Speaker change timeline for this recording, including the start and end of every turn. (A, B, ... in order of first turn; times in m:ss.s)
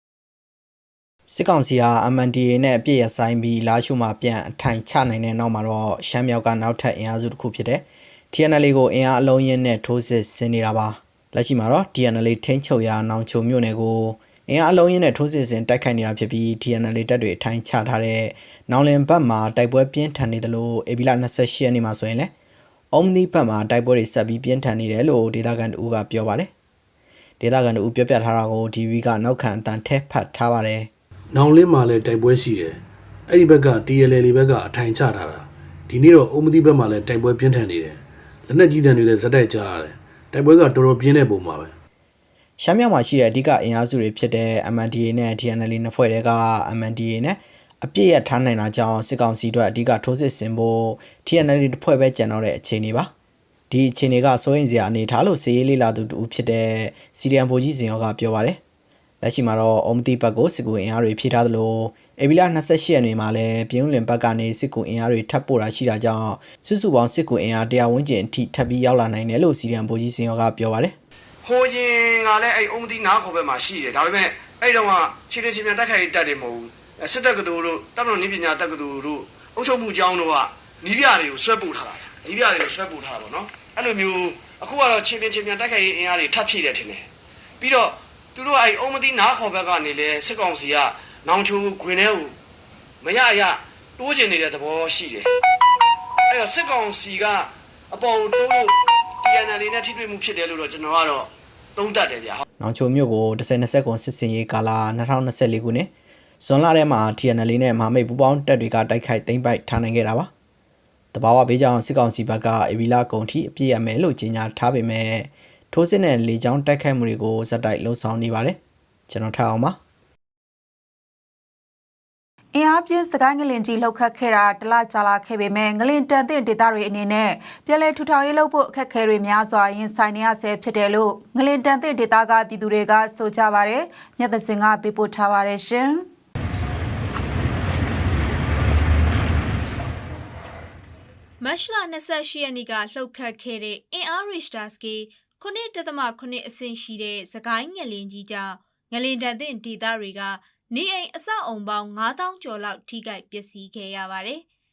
0:01.3-0:22.3 A
0:22.9-0:26.5 A
0:27.4-0:30.9 A
0:31.3-0:41.7 B
0:42.6-0:53.1 A
0:53.7-0:58.6 A
0:59.2-1:11.0 A
1:11.4-1:27.1 C
1:27.6-1:32.3 C
1:33.0-1:35.3 C
1:36.3-1:42.4 C
1:42.6-1:45.9 A
1:46.4-1:50.3 A
1:51.1-1:59.8 A
2:02.5-2:16.0 D
2:21.4-2:34.4 E